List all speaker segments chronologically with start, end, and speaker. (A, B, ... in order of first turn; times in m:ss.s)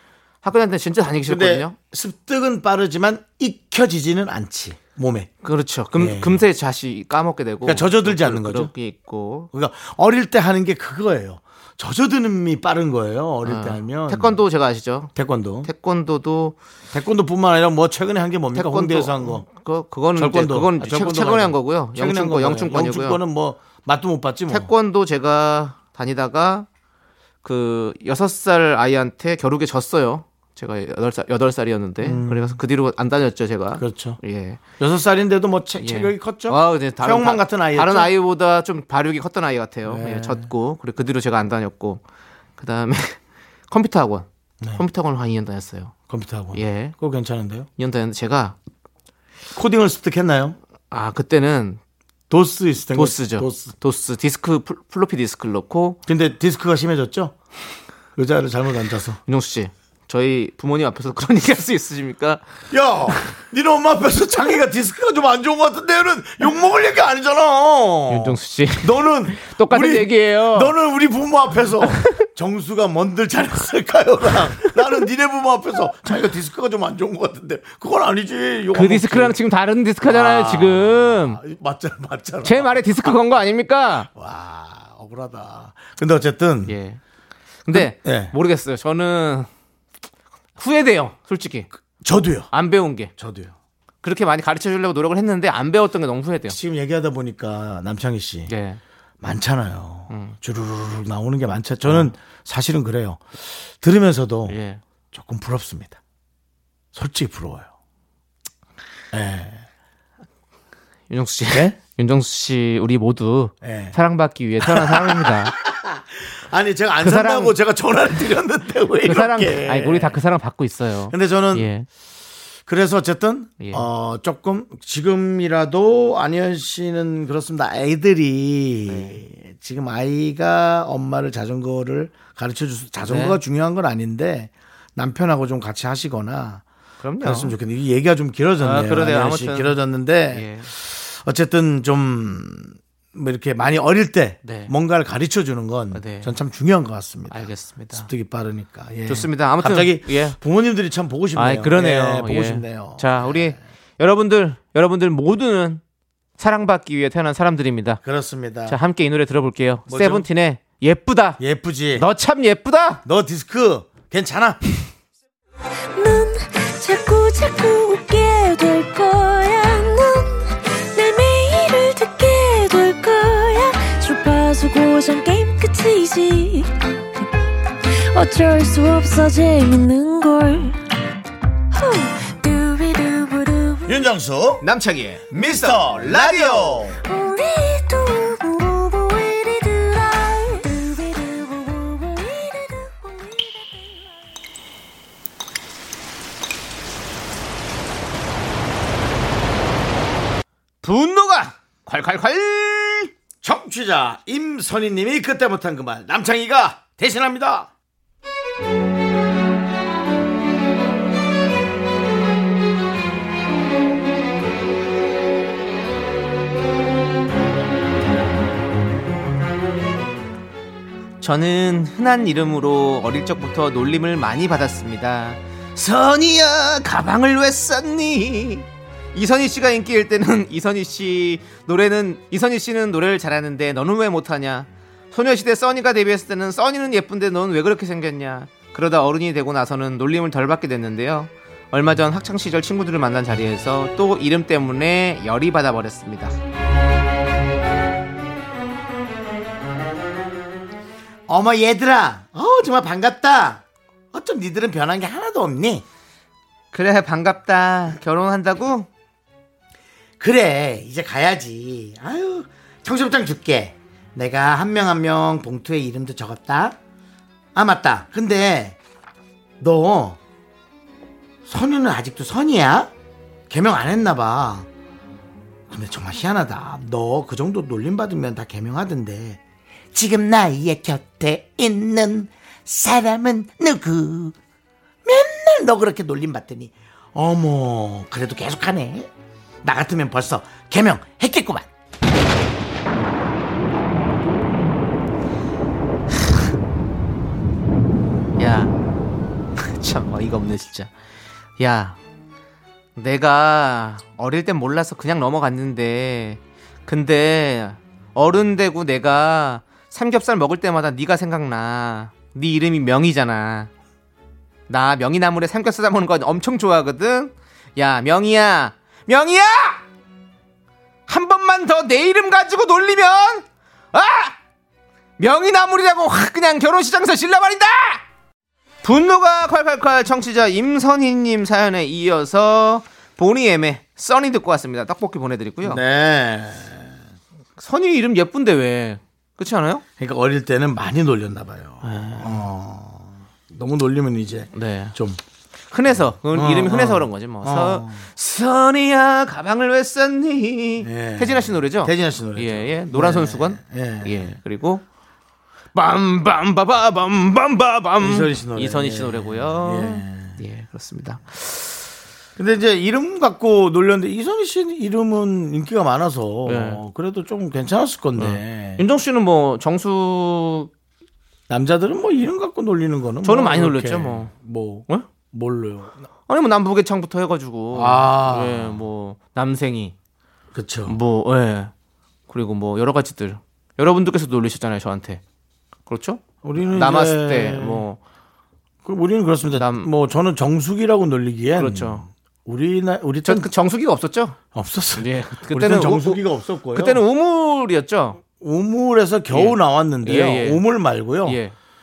0:00.4-0:01.7 A
0:01.2-0:05.3 B
0:05.4-0:09.5 A
0:05.9-0:06.4 B
0:07.6-0:08.7 B
0:09.5-0:14.4 B
0:13.4-0:15.1 A
0:15.1-0:15.7 B
0:15.6-0:16.5 A
0:16.9-0:19.5 B
0:18.5-0:23.2 A
0:20.1-0:24.7 B
0:24.5-0:26.6 A
0:27.4-0:34.6 A
0:32.0-0:32.6 B
0:33.7-0:34.2 B
0:34.8-0:38.1 B
0:35.8-0:42.0 A
0:39.8-0:40.5 B
0:42.6-0:43.2 A
0:43.7-0:44.2 A
0:44.8-0:45.9 A
0:46.1-0:47.7 B
0:46.5-0:46.9 A
0:47.8-0:48.5 A
0:49.5-0:50.6 B
0:50.9-0:51.8 A
0:52.3-0:53.7 B
0:52.9-0:56.0 A
0:56.0-0:57.3 B
0:58.2-0:59.2 B
0:59.3-1:02.4 A
1:02.7-1:19.4 B
1:08.1-1:10.7 A
1:18.7-1:21.4 A
1:20.0-1:23.2 B
1:22.4-1:24.1 A
1:24.0-1:26.8 B
1:26.7-1:27.0 A
1:27.7-1:29.5 A
1:27.7-1:28.3 B
1:30.6-1:31.7 A
1:31.8-1:33.5 B
1:32.5-1:33.1 A
1:34.0-1:36.6 A
1:36.4-1:38.5 B
1:38.5-1:38.8 A
1:39.2-1:44.6 B
1:44.5-1:44.8 A
1:45.1-1:46.0 B
1:46.9-1:47.7 B
1:49.1-1:49.6 B
1:51.1-1:55.5 A
1:51.5-1:51.8 B
1:53.6-1:54.0 B
1:54.6-2:00.2 B
1:57.0-1:57.5 A
1:59.0-2:01.8 A
2:01.0-2:01.7 B
2:02.7-2:16.6 B
2:08.9-2:09.2 A
2:13.0-2:13.4 A
2:17.0-2:17.5 A
2:17.2-2:33.6 B
2:18.6-2:19.7 A
2:20.3-2:20.7 A
2:24.4-2:24.7 A
2:25.9-2:26.3 A
2:27.3-2:28.1 A
2:29.1-2:30.4 A
2:31.4-2:35.8 A
2:36.4-2:38.0 A
2:38.0-2:38.8 B
2:38.7-2:41.4 A
2:39.8-2:40.3 B
2:41.4-2:42.1 B
2:42.0-2:43.0 A
2:43.0-2:44.6 B
2:46.0-2:57.2 C
2:57.9-3:00.8 C
3:01.7-3:04.0 C
3:03.8-3:04.6 B
3:04.6-3:06.8 A
3:05.3-3:07.0 B
3:07.0-3:14.0 C
3:20.8-3:23.1 A
3:23.4-3:27.7 B
3:41.2-4:06.3 A
4:11.3-4:15.8 B
4:16.7-4:18.9 A
4:20.2-4:26.8 B
4:27.5-4:28.8 B
4:29.6-4:30.2 B
4:31.4-4:32.9 B
4:33.5-4:34.7 B
4:35.7-4:39.4 B
4:39.9-4:44.3 B
4:45.0-4:49.1 B
4:49.6-4:51.7 B
4:58.4-4:58.7 A
4:59.8-5:00.9 A
5:01.6-5:01.9 A
5:03.0-5:13.7 A
5:14.7-5:19.8 A
5:21.1-5:23.4 A
5:23.9-5:24.3 A
5:25.2-5:28.0 A
5:28.8-5:35.8 A
5:35.6-5:36.9 B
5:37.6-5:39.8 A
5:40.0-5:45.2 B
5:41.8-5:42.3 A
5:44.6-5:44.9 A
5:45.7-5:54.8 A
5:45.9-5:48.1 B
5:50.8-5:54.4 B
5:55.7-6:01.2 A
5:58.0-6:00.4 B
6:02.4-6:08.9 B
6:06.5-6:06.8 A
6:08.2-6:10.7 A
6:11.5-6:16.0 B
6:13.2-6:14.3 A
6:16.3-6:19.9 A
6:17.7-6:18.8 B
6:20.5-6:21.0 B
6:20.9-6:21.7 A
6:22.3-6:25.2 A
6:25.9-6:26.2 A
6:26.4-6:27.9 B
6:26.7-6:28.0 A
6:28.8-6:33.5 B
6:29.5-6:29.9 A
6:31.6-6:32.0 A
6:33.3-6:34.3 A
6:34.5-6:37.0 B
6:35.0-6:36.2 A
6:36.7-6:38.2 A
6:38.4-6:41.4 B
6:39.3-6:40.6 A
6:41.3-6:41.5 A